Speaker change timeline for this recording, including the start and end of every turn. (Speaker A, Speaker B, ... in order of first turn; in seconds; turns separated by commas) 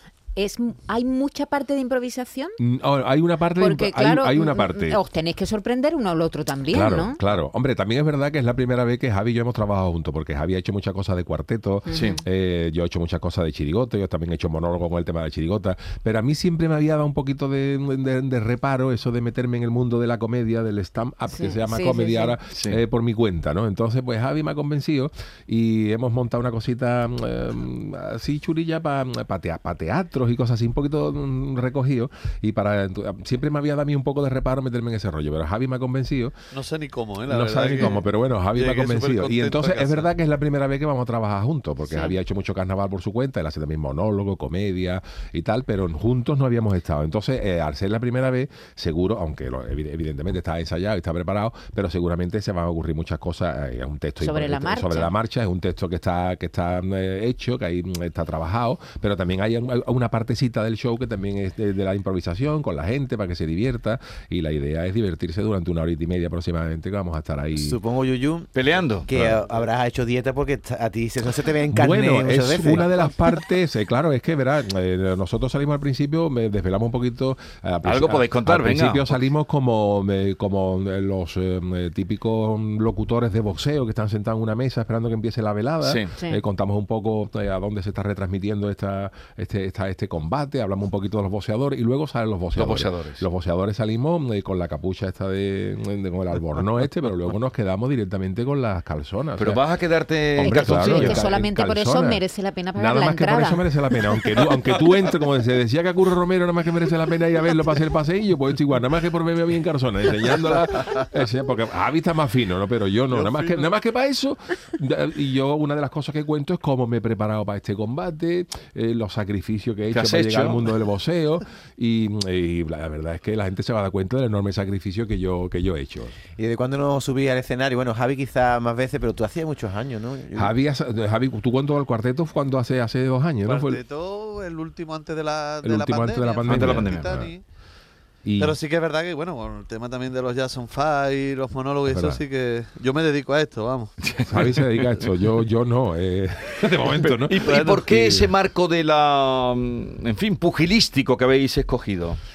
Speaker A: 0.3-2.6, Speaker B: 2.6-5.0, Speaker A: 3.6-7.2, Speaker B: 6.7-36.3, Speaker A: 11.9-12.2, Speaker C: 11.9-12.2, Speaker A: 21.3-22.4, Speaker C: 22.5-22.8, Speaker D: 36.5-38.0, Speaker B: 37.3-67.8, Speaker D: 38.5-40.1, Speaker A: 41.9-42.1, Speaker A: 54.2-55.1, Speaker E: 67.5-73.1, Speaker C: 68.5-69.1, Speaker B: 69.1-69.4, Speaker B: 71.7-99.6, Speaker C: 77.8-79.2, Speaker C: 85.8-86.1, Speaker C: 92.5-93.2, Speaker C: 99.4-101.2, Speaker B: 100.3-126.1, Speaker A: 100.7-103.8, Speaker D: 113.1-113.7, Speaker C: 119.9-120.7, Speaker E: 126.4-130.5, Speaker B: 130.3-133.8, Speaker D: 133.4-137.4, Speaker B: 135.6-137.3, Speaker C: 136.4-137.1, Speaker B: 138.2-138.6, Speaker D: 138.4-144.2, Speaker B: 141.9-142.2, Speaker C: 144.0-144.9, Speaker B: 144.2-148.3, Speaker C: 146.9-152.2, Speaker D: 147.4-147.8